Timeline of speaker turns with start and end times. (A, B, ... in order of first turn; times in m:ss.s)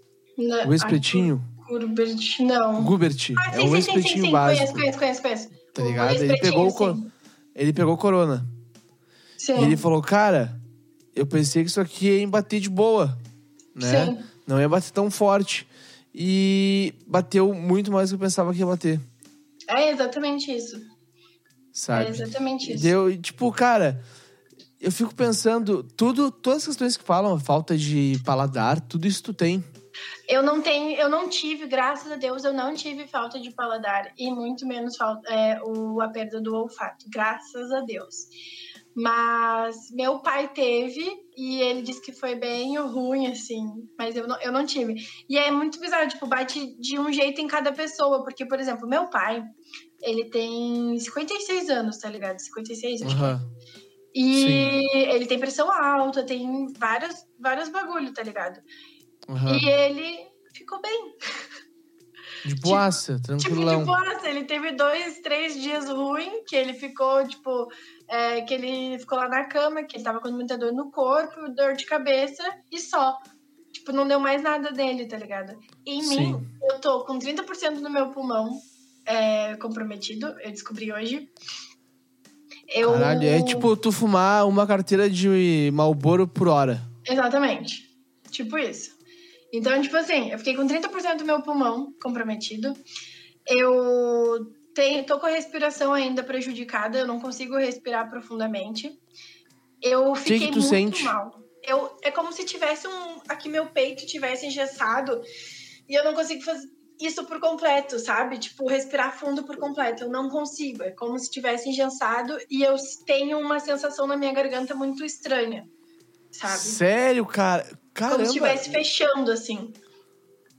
0:00.4-0:07.1 A
0:00.6-0:01.4 B
0:02.8-0:04.8 B
0:05.7-0:07.0 B
0:07.6-0:08.4 B
0:09.4-0:09.8 A
0:09.6-0:10.6 B
0:11.1-0:13.2 B
0:13.7-0:19.0 B
0:13.8-0:14.2 A
0:19.7-0:20.8 A
0:21.7-0:24.0 B
0:21.9-0:22.9 A
0:24.8-0:29.6 B
0:30.3-0:38.3 A
0:38.9-0:53.4 A
0:53.0-0:53.5 B
0:54.1-0:58.6 A
0:54.3-0:54.8 B
0:59.3-0:59.7 B
0:59.4-1:01.2 A
1:02.4-1:03.9 B
1:02.6-1:13.2 A
1:13.7-1:21.3 A
1:16.0-1:16.4 B
1:22.7-1:23.7 A
1:22.8-1:26.9 B
1:27.0-1:29.0 A
1:29.5-1:32.8 A
1:33.4-1:39.0 A
1:39.8-1:45.2 A
1:40.2-1:41.1 B
1:45.9-1:55.7 A
1:56.3-1:56.8 A
1:56.5-1:58.8 B
1:58.1-1:59.8 A